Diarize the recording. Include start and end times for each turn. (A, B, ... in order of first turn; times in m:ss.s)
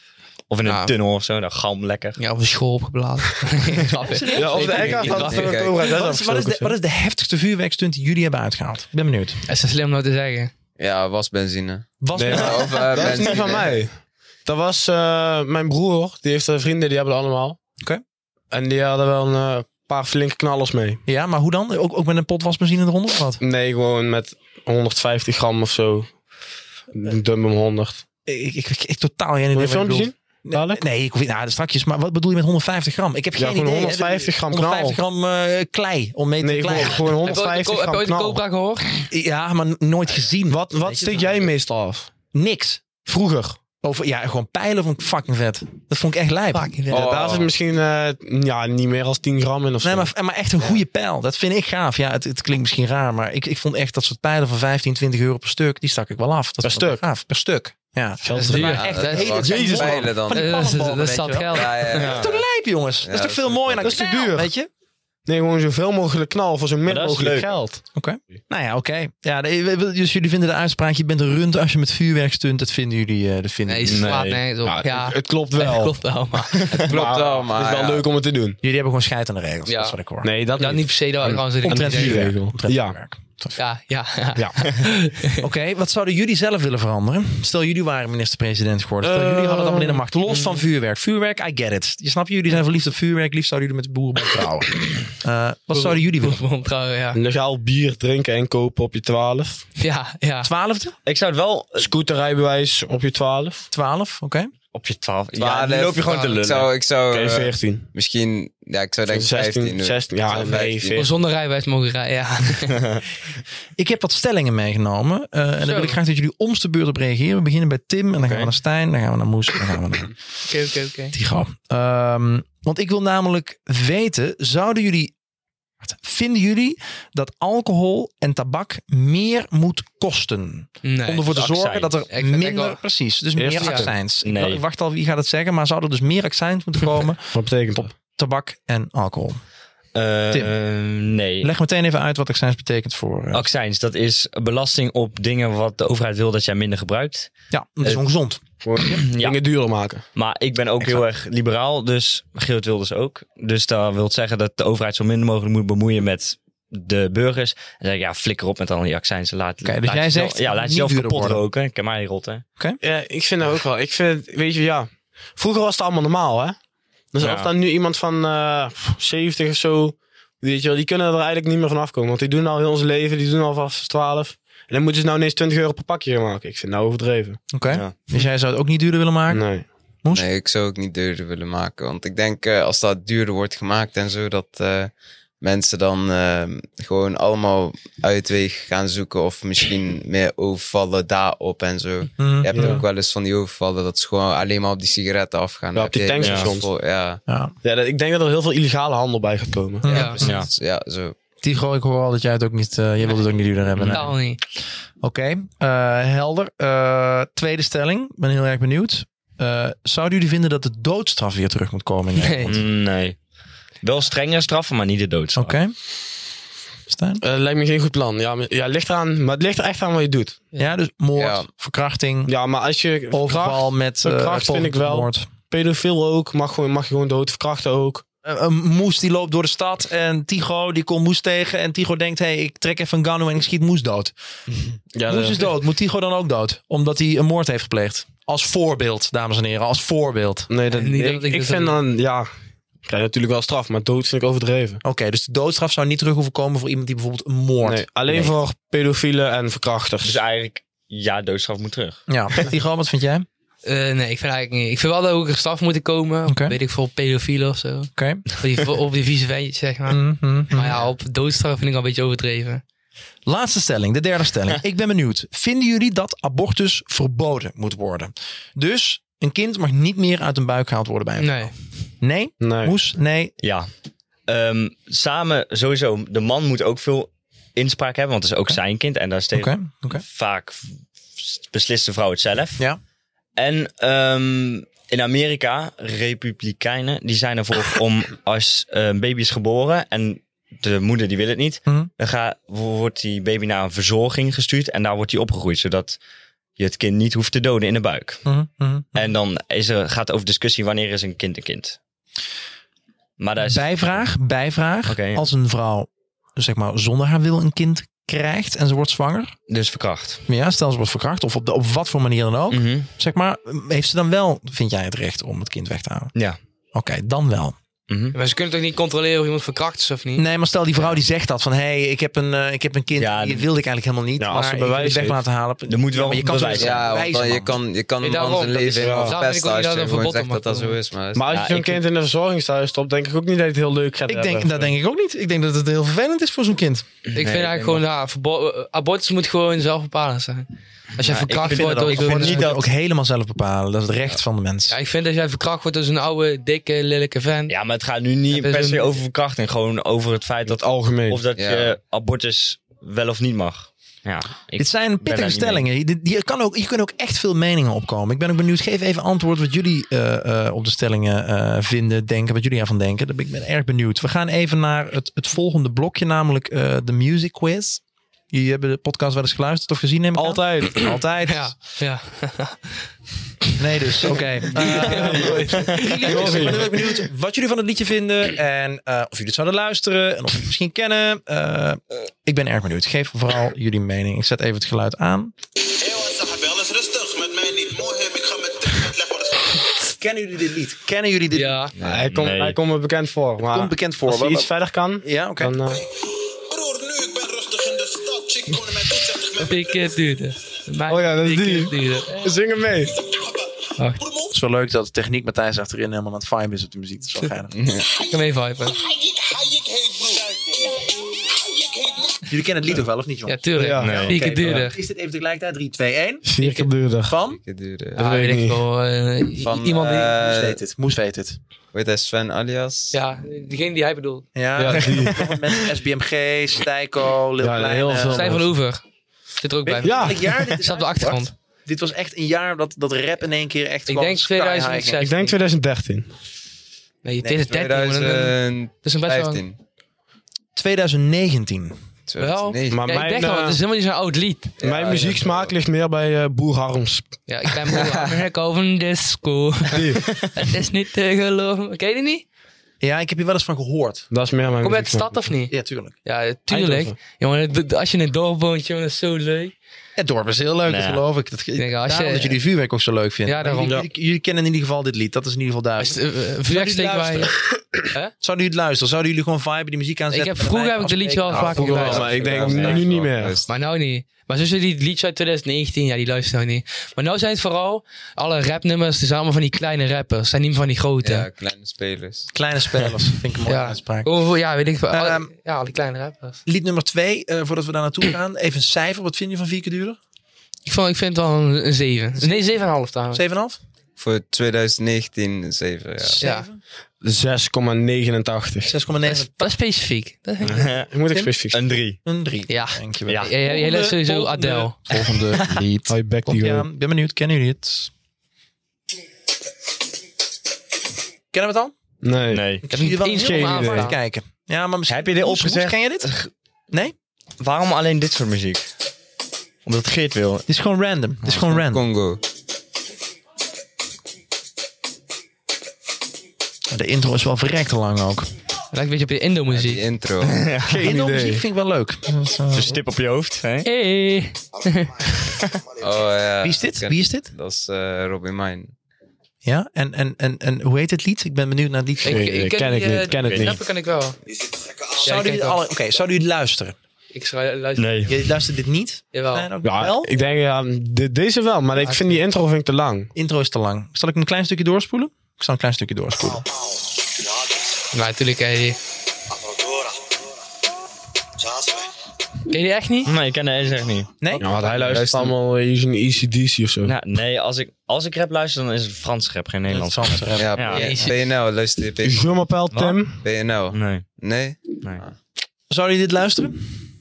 0:00.5-0:02.2 A
0:00.6-0:00.9 B
0:02.2-0:05.5 B
0:04.0-0:09.4 C
0:04.4-0:06.7 D
0:04.5-0:05.9 E
0:09.5-0:10.5 B
0:10.8-0:13.8 E
0:12.0-0:13.4 C
0:12.2-0:17.6 D
0:18.5-0:21.0 D
0:21.1-0:23.4 C
0:23.4-0:26.1 D
0:26.9-0:28.0 D
0:28.3-0:37.1 C
0:29.6-0:30.8 D
0:33.4-0:35.0 D
0:36.4-0:38.4 D
0:37.2-0:39.0 B
0:39.1-0:41.5 C
0:40.5-0:42.1 D
0:42.3-0:42.8 C
0:43.0-0:43.6 D
0:43.8-0:47.5 C
0:46.5-0:47.0 B
0:46.9-0:47.5 E
0:46.9-0:50.1 D
0:49.8-1:04.7 C
0:56.6-0:57.0 D
0:58.2-1:00.0 D
0:58.4-1:02.0 B
0:58.5-1:00.6 E
1:01.5-1:02.4 E
1:02.0-1:02.3 A
1:03.0-1:04.1 E
1:03.8-1:04.5 D
1:05.3-1:07.8 D
1:06.9-1:07.5 A
1:07.9-1:14.1 C
1:13.7-1:16.7 B
1:13.9-1:14.4 A
1:14.6-1:18.6 D
1:16.7-1:18.1 E
1:18.6-1:20.3 C
1:19.7-1:20.0 B
1:20.2-1:23.0 D
1:20.6-1:22.3 B
1:21.6-1:23.6 C
1:23.6-1:25.4 B
1:25.4-1:36.4 C
1:29.0-1:30.0 D
1:30.3-1:30.6 B
1:35.7-1:37.2 B
1:37.1-1:39.6 D
1:39.8-1:40.5 B
1:40.4-1:41.0 C
1:41.1-1:41.9 A
1:41.8-1:43.6 D
1:43.7-1:44.5 C
1:44.7-1:46.7 A
1:45.4-1:51.1 E
1:46.1-1:46.4 B
1:47.1-1:47.9 D
1:49.1-1:51.0 D
1:51.0-1:52.8 B
1:53.8-2:00.2 C
1:55.6-1:56.0 B
1:58.2-1:58.5 A
2:00.5-2:01.2 B
2:01.1-2:05.1 C
2:05.8-2:19.4 C
2:10.8-2:11.4 B
2:11.3-2:11.9 A
2:12.1-2:12.8 B
2:13.4-2:13.9 D
2:13.6-2:13.9 B
2:14.2-2:14.6 A
2:17.3-2:18.0 D
2:20.0-2:21.5 A
2:21.4-2:23.5 C
2:23.3-2:27.3 A
2:27.5-2:28.4 C
2:28.6-2:30.1 D
2:28.9-2:29.4 A
2:30.2-2:42.4 A
2:39.6-2:41.4 C
2:42.8-2:46.6 D
2:47.1-2:57.5 D
2:47.2-2:47.5 A
2:57.5-2:59.5 C
2:57.7-2:58.0 A
2:59.3-2:59.7 D
3:00.1-3:17.2 E
3:12.2-3:12.8 C
3:12.5-3:12.8 D
3:15.8-3:16.7 D
3:16.2-3:16.5 A
3:17.3-3:17.5 C
3:17.6-3:20.0 D
3:19.8-3:20.2 C
3:19.9-3:21.2 E
3:19.9-3:20.2 B
3:20.2-3:20.5 A
3:21.4-3:24.2 C
3:23.8-3:24.0 A
3:23.9-3:24.4 B
3:25.0-3:32.6 C
3:32.2-3:32.5 B
3:32.5-3:33.2 A
3:33.8-3:35.6 A
3:35.4-3:35.8 C
3:36.9-3:37.2 C
3:37.2-3:40.5 D
3:40.6-3:42.3 C
3:41.2-3:41.5 E
3:42.3-3:48.0 D
3:43.1-3:45.3 C
3:48.2-3:54.2 C
3:55.0-3:55.5 D
3:55.1-4:00.5 C
4:00.5-4:02.3 D
4:00.7-4:01.8 B
4:02.8-4:04.8 D
4:04.8-4:08.3 C
4:07.6-4:10.2 D
4:10.0-4:12.5 A
4:12.1-4:13.3 C
4:13.6-4:22.6 B
4:16.3-4:16.6 C
4:18.0-4:18.2 C
4:19.9-4:20.8 C
4:23.2-4:33.3 C
4:31.2-4:31.5 B
4:32.4-4:32.7 D
4:33.4-4:33.7 A
4:34.3-4:42.6 A
4:39.3-4:40.0 C
4:43.4-4:56.0 A
4:56.6-4:58.3 A
4:58.3-4:59.1 C
4:59.0-5:01.8 A
5:03.2-5:04.0 A
5:03.4-5:09.4 C
5:04.9-5:05.2 A
5:09.5-5:10.2 A
5:10.3-5:16.1 C
5:12.5-5:12.9 A
5:16.7-5:17.6 C
5:17.9-5:18.2 A
5:18.1-5:20.2 B
5:20.2-5:27.6 C
5:23.0-5:23.5 A
5:24.2-5:25.2 D
5:25.7-5:26.9 A
5:26.6-5:31.3 E
5:28.0-5:30.8 B
5:28.8-5:29.2 D
5:31.2-5:34.7 D
5:31.3-5:31.8 A
5:34.1-5:36.8 C
5:37.1-5:37.8 A
5:37.1-5:42.5 B
5:41.0-5:42.7 A
5:41.4-5:44.8 C
5:44.7-5:47.6 B
5:47.5-5:55.7 A
5:48.3-5:49.0 B
5:50.5-5:51.2 D
5:51.4-5:51.8 E
5:54.6-6:11.5 C
6:10.2-6:10.9 D
6:11.3-6:12.9 B
6:13.6-6:25.3 C
6:14.1-6:16.5 B
6:14.6-6:15.3 D
6:16.0-6:16.8 D
6:25.9-6:29.2 F
6:29.9-6:31.6 C
6:31.3-6:31.7 B
6:31.8-6:32.6 A
6:31.8-6:35.8 D
6:33.5-6:35.6 C
6:39.2-6:42.3 B
6:40.9-6:43.1 D
6:43.8-6:44.0 B
6:44.3-6:47.5 C
6:47.5-6:47.9 E
6:48.0-6:48.8 B
6:48.9-6:52.1 F
6:52.3-6:56.2 C
6:53.3-6:54.8 B
6:53.6-6:54.6 D
6:53.8-6:54.2 A
6:56.2-6:57.2 D
6:56.4-6:56.7 B
6:57.0-6:57.4 C
6:57.3-6:58.1 E
6:58.0-7:00.2 B
6:58.0-6:58.6 D
6:59.4-7:00.6 E
7:00.2-7:01.4 C
7:01.7-7:03.0 E
7:02.9-7:04.3 B
7:04.4-7:08.4 C
7:04.6-7:05.5 D
7:07.4-7:08.5 D
7:08.1-7:08.8 B
7:09.4-7:11.3 B
7:09.6-7:15.0 C
7:09.8-7:10.2 D
7:13.9-7:15.4 B
7:15.0-7:16.1 D
7:17.0-7:19.4 B
7:17.4-7:19.6 E
7:20.6-7:21.8 C
7:22.1-7:22.9 E
7:22.2-7:24.6 B
7:22.7-7:23.6 D
7:24.6-7:25.6 E
7:24.6-7:27.1 D
7:27.3-7:32.2 B
7:29.7-7:30.0 D
7:32.8-7:34.1 C
7:34.1-7:35.2 D
7:34.6-7:39.5 B
7:35.5-7:35.9 C
7:36.5-7:37.0 D
7:40.0-7:47.4 C
7:40.7-7:41.0 A
7:41.6-7:42.4 B
7:43.2-7:43.8 B
7:45.8-7:47.3 B
7:48.2-7:52.4 C
7:50.1-7:52.1 B
7:51.4-7:53.5 E
7:51.4-7:53.4 D
7:52.4-7:52.8 A
7:53.5-8:01.3 B
8:01.0-8:02.3 E
8:02.3-8:04.1 C
8:03.4-8:06.4 B
8:04.9-8:05.3 C
8:06.5-8:10.0 C
8:10.7-8:13.2 B
8:13.1-8:13.6 C
8:14.0-8:16.2 E
8:16.0-8:16.6 C
8:16.2-8:16.5 B
8:17.0-8:18.8 D
8:18.7-8:19.6 C
8:19.1-8:20.7 B
8:20.4-8:20.9 A
8:20.9-8:21.6 D
8:21.5-8:22.0 A
8:22.0-8:27.9 C
8:22.5-8:24.8 B
8:23.1-8:23.3 A
8:25.9-8:26.7 D
8:31.3-8:31.8 C
8:32.0-8:32.6 D
8:32.3-8:32.6 A
8:32.6-8:36.1 C
8:32.7-8:34.0 B
8:33.2-8:33.9 D
8:34.9-8:36.3 A
8:37.4-8:38.7 A
8:39.6-8:40.5 A
8:40.5-8:41.8 C
8:41.3-8:42.2 E
8:46.7-8:48.3 C
8:48.7-8:49.8 B
8:49.5-8:50.5 E
8:50.2-8:50.9 A
8:50.7-8:51.4 D
8:50.8-8:52.8 C
8:52.5-8:53.7 A
8:53.6-8:55.2 B
8:55.8-8:58.7 E
8:56.4-8:57.3 C
8:59.4-9:02.3 C
9:02.0-9:04.2 B
9:02.1-9:03.6 D
9:03.2-9:03.6 A
9:05.0-9:05.6 B
9:05.0-9:06.8 C
9:07.1-9:08.1 B
9:07.8-9:08.2 A
9:08.1-9:10.1 C
9:09.1-9:09.5 B
9:09.6-9:13.1 D
9:11.8-9:12.2 B
9:13.2-9:16.4 C
9:17.9-9:18.8 B
9:22.5-9:23.1 B
9:23.0-9:24.2 A
9:24.4-9:26.9 D
9:24.7-9:25.3 E
9:26.8-9:30.9 A
9:29.7-9:30.8 C
9:30.4-9:32.3 E
9:30.7-9:31.2 B
9:32.0-9:33.2 D
9:32.7-9:33.0 A
9:33.2-9:35.2 E
9:33.7-9:34.1 A
9:35.7-9:36.8 C